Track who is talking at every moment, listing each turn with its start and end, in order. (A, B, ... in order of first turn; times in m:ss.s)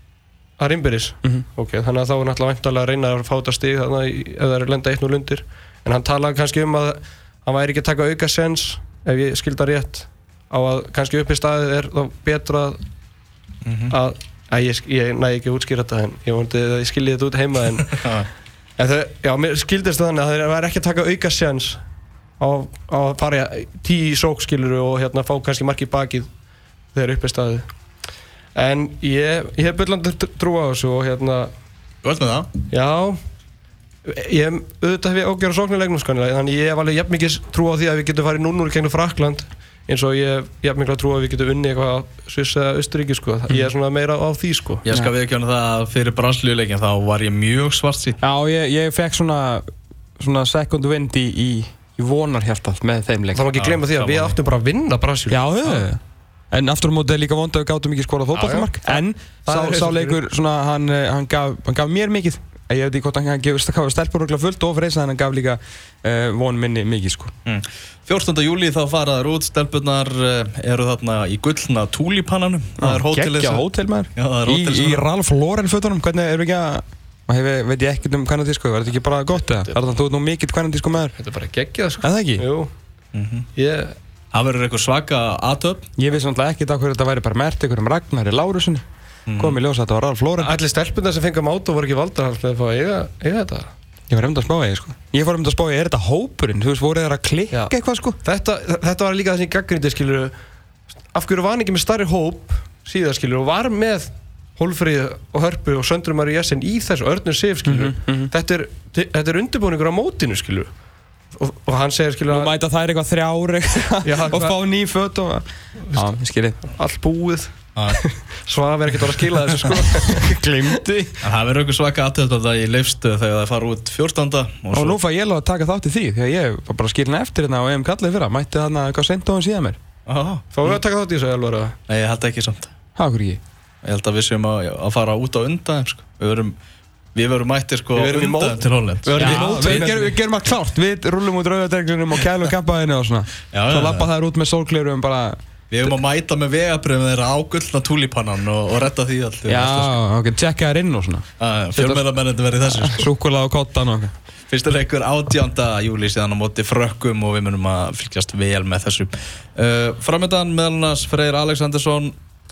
0:00.6-0:12.8 A
0:13.6-0:13.9 B
0:13.9-0:18.0 A
0:17.9-0:18.3 B
0:18.8-0:21.8 A
0:22.4-0:26.3 A
0:26.9-0:27.7 A
0:28.5-0:31.5 A
0:32.0-0:32.5 B
0:32.7-0:33.2 A
0:34.0-0:44.8 A
0:44.8-0:48.2 B
0:48.2-0:53.5 C
0:53.3-0:55.4 A
0:53.6-0:54.4 B
0:55.3-1:07.3 C
0:58.3-1:00.2 A
1:07.4-1:13.6 B
1:12.8-1:21.1 C
1:14.2-1:15.0 B
1:21.2-1:22.7 A
1:22.0-1:22.4 C
1:23.1-1:23.4 B
1:23.5-1:23.9 A
1:24.3-1:25.9 B
1:26.0-1:28.8 C
1:29.3-1:29.6 B
1:29.4-1:30.5 C
1:30.4-1:33.7 A
1:34.1-1:38.2 C
1:37.5-1:40.3 A
1:41.1-1:50.7 A
1:47.6-1:48.3 C
1:51.3-1:52.5 A
1:52.3-1:56.6 C
1:54.0-1:54.6 A
1:56.6-2:01.2 A
1:57.8-1:58.0 B
2:00.1-2:00.8 C
2:01.2-2:05.0 B
2:04.7-2:09.8 C
2:10.0-2:10.4 B
2:10.5-2:11.8 A
2:11.9-2:12.7 B
2:13.0-2:13.4 C
2:13.8-2:16.6 B
2:17.1-2:20.1 B
2:17.9-2:20.1 A
2:19.2-2:25.9 C
2:23.5-2:24.1 B
2:25.7-2:29.9 B
2:29.4-2:32.0 C
2:31.4-2:33.1 B
2:32.6-2:34.1 C
2:34.5-2:42.2 B